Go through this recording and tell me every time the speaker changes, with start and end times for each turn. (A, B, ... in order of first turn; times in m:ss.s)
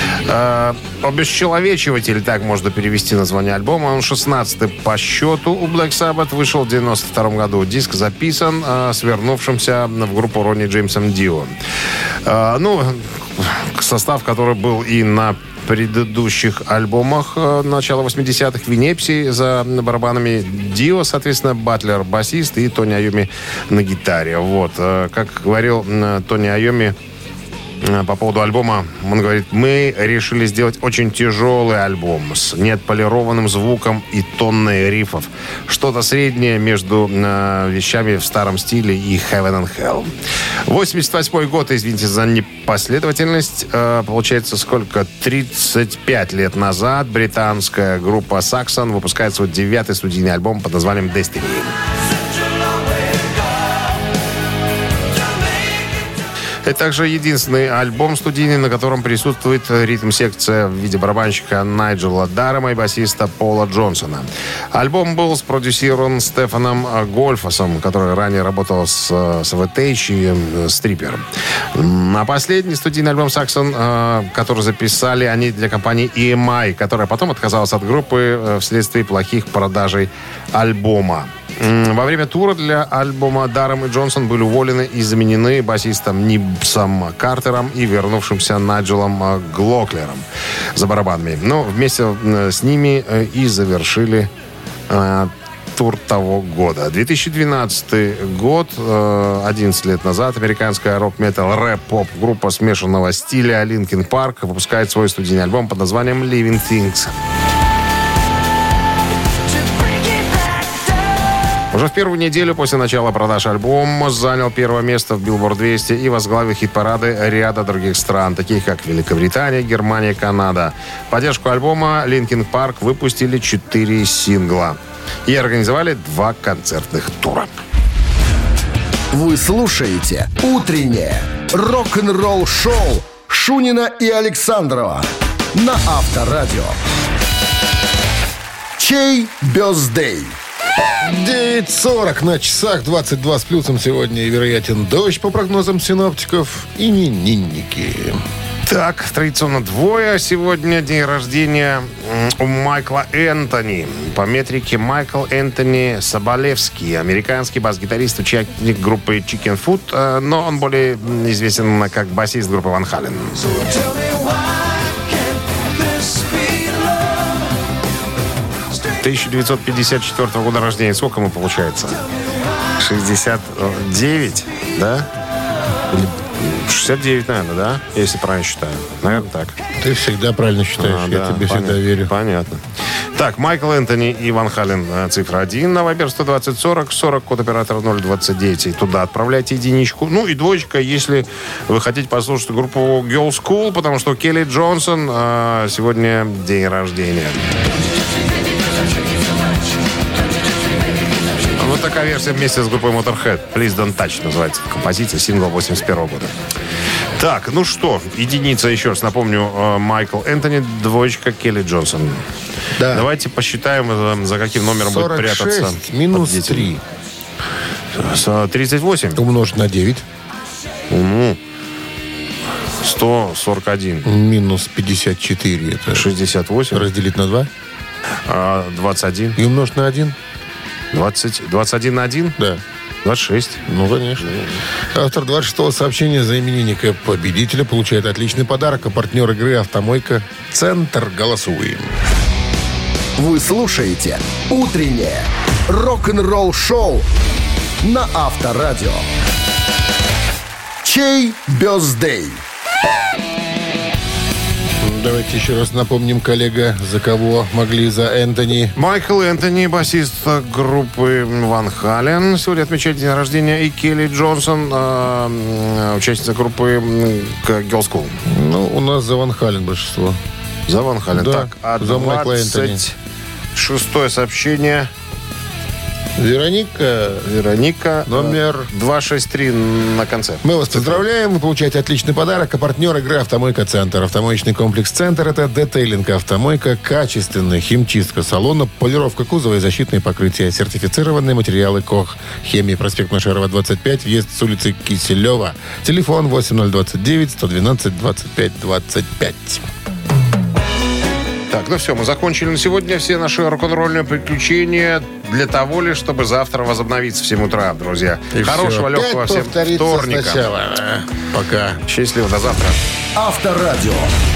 0:00.2-0:11.5 A
0:12.2-0:27.0 A
0:27.8-0:40.1 A
0:40.6-0:51.7 A
0:56.6-1:30.2 A
1:30.7-1:34.3 A
1:34.9-1:47.1 A
1:51.7-2:07.5 A
2:09.1-2:16.8 B
2:18.8-2:20.4 B
2:21.0-2:28.2 C
2:28.7-2:43.6 A
2:48.9-2:52.0 A
2:52.8-2:55.1 A
2:55.9-2:59.6 A
2:59.8-3:02.1 C
3:00.8-3:02.6 A
3:03.1-3:17.4 A
3:21.6-3:26.3 A
3:27.2-3:32.2 A
3:32.8-3:33.1 C
3:32.9-3:36.8 A
3:34.8-3:36.8 C
3:37.9-3:39.2 A
3:39.2-3:40.0 C
3:40.9-3:41.4 A
3:42.8-3:44.1 A
3:44.0-3:46.1 C
3:45.9-3:46.8 A
3:46.7-3:47.5 C
3:48.3-3:49.4 A
3:49.4-3:50.2 C
3:50.9-3:52.4 A
3:53.0-3:53.6 A
3:53.7-3:54.4 C
3:54.2-3:54.6 A
3:54.9-4:01.9 C
4:03.2-4:07.1 B
4:07.8-4:09.1 B
4:10.8-4:12.4 B
4:14.8-4:18.8 C
4:18.8-4:28.2 A
4:28.2-4:30.2 C
4:30.7-4:32.9 A
4:31.1-4:32.8 C
4:33.5-4:34.9 A
4:36.2-4:37.3 C
4:37.2-4:41.0 A
4:38.0-4:38.7 C
4:40.4-4:59.6 C
5:01.5-5:10.5 A
5:08.3-5:11.8 C
5:11.9-5:12.8 A
5:13.2-5:14.1 B